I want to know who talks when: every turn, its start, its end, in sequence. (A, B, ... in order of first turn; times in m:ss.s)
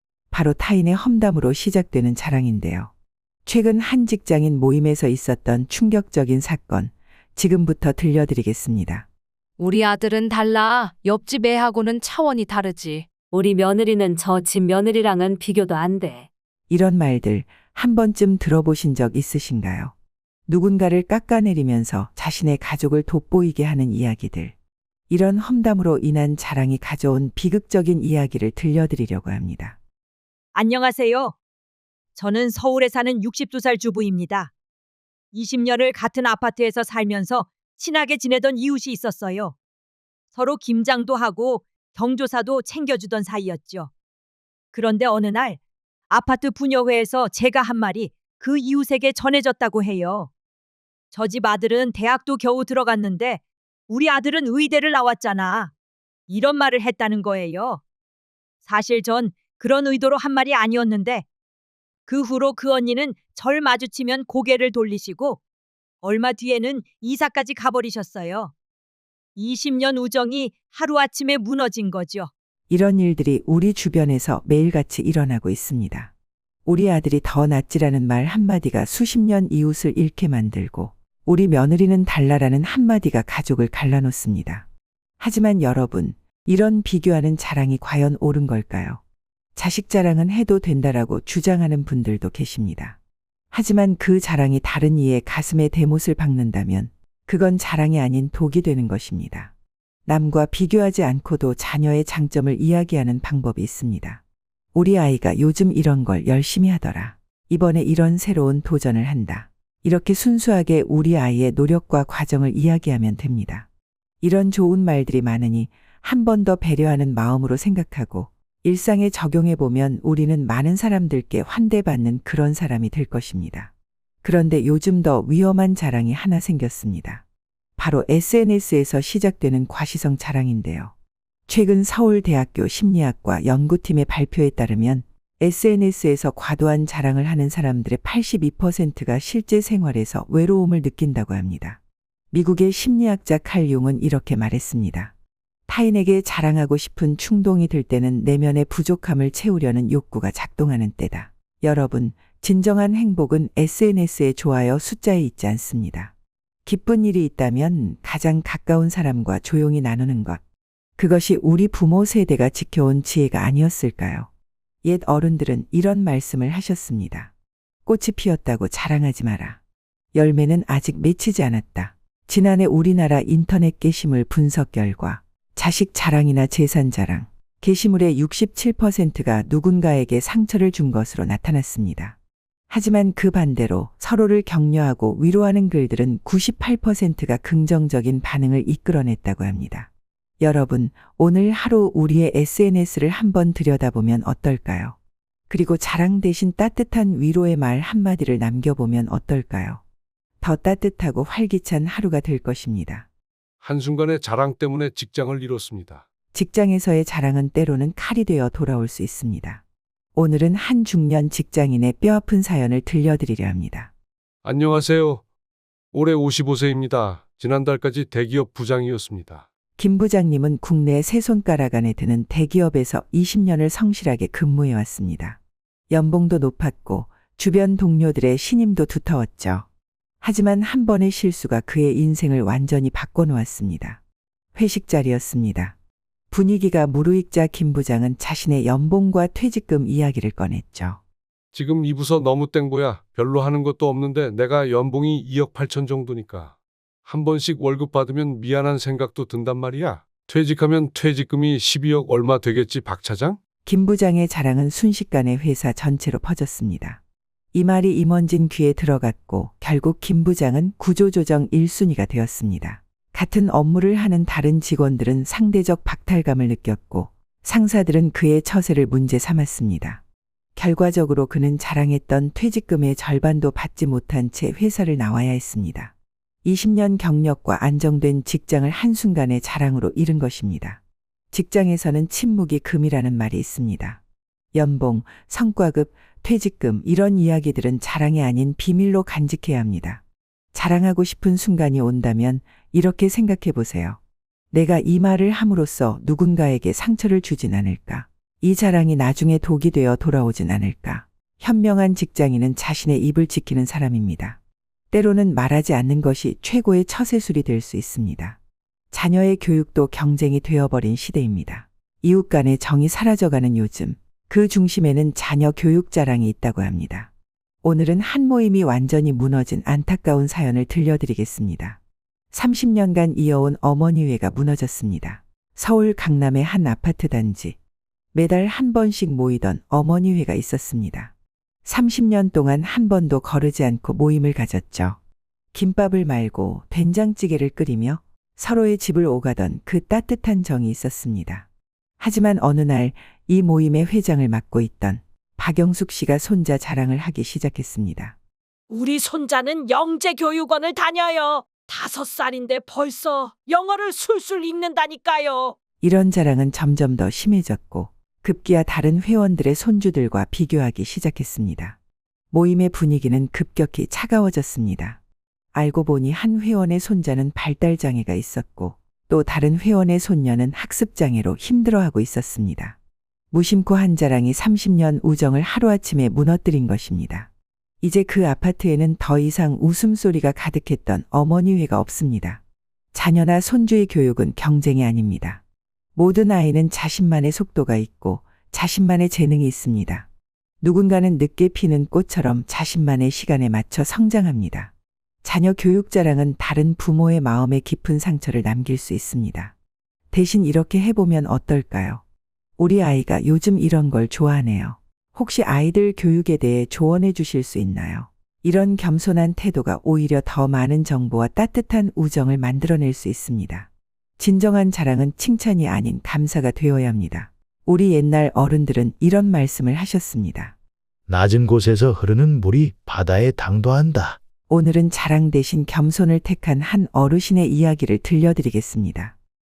0:00.3-0:02.9 A
0:03.5-0:09.1 A
0:09.6-0:13.1 B
0:13.3-0:16.3 C
0:16.7-0:19.9 A
0:20.5-0:24.6 A
0:25.1-0:29.8 A
0:30.5-0:31.4 D
0:32.2-0:34.5 D
0:35.3-0:39.6 D
0:40.3-0:43.9 D
0:44.7-0:50.3 D
0:51.1-0:55.7 D
0:56.3-0:57.8 D
0:58.6-1:01.2 D
1:02.1-1:05.4 D
1:06.0-1:08.5 D
1:09.4-1:12.3 D
1:12.7-1:16.1 A
1:16.7-1:24.7 A
1:25.2-1:29.0 A
1:29.6-1:33.0 A
1:33.5-1:39.5 A
1:40.1-1:44.2 A
1:44.8-1:53.7 A
1:54.2-2:03.7 A
2:04.2-2:07.2 A
2:07.8-2:10.9 A
2:11.5-2:21.8 A
2:22.3-2:25.1 A
2:25.7-2:36.1 A
2:36.7-2:40.4 A
2:41.0-2:44.3 A
2:44.8-2:47.3 A
2:47.9-2:49.6 A
2:50.1-3:02.2 A
3:02.7-3:09.9 A
3:10.4-3:15.0 A
3:15.5-3:19.8 A
3:20.4-3:23.1 A
3:23.6-3:26.0 E
3:26.3-3:29.6 A
3:30.2-3:33.9 A
3:34.4-3:35.2 E
3:35.9-3:39.5 E
3:39.8-3:45.4 A
3:45.9-3:49.7 A
3:50.2-3:54.0 A
3:54.6-3:55.8 A
3:56.3-4:01.0 A
4:01.5-4:13.4 E
4:13.7-4:17.0 A
4:17.5-4:30.0 A
4:30.6-4:35.9 A
4:36.4-4:40.8 A
4:41.3-4:44.0 A
4:44.6-4:50.0 A
4:50.5-4:54.0 A
4:54.5-5:04.4 A
5:04.9-5:08.4 A
5:08.9-5:17.1 A
5:17.6-5:21.8 A
5:22.3-5:27.6 A
5:28.1-5:31.1 A
5:31.6-5:35.0 A
5:35.5-5:41.5 A
5:42.0-5:48.2 A
5:48.7-5:55.5 F
5:55.8-6:01.8 A
6:02.3-6:05.0 A
6:05.6-6:12.8 A
6:13.3-6:17.3 A
6:17.8-6:22.4 A
6:22.9-6:25.4 A
6:26.0-6:30.1 A
6:30.6-6:34.7 A
6:35.2-6:39.5 A
6:40.1-6:42.0 A
6:42.6-7:00.5 A
7:01.1-7:04.2 G
7:04.5-7:09.1 A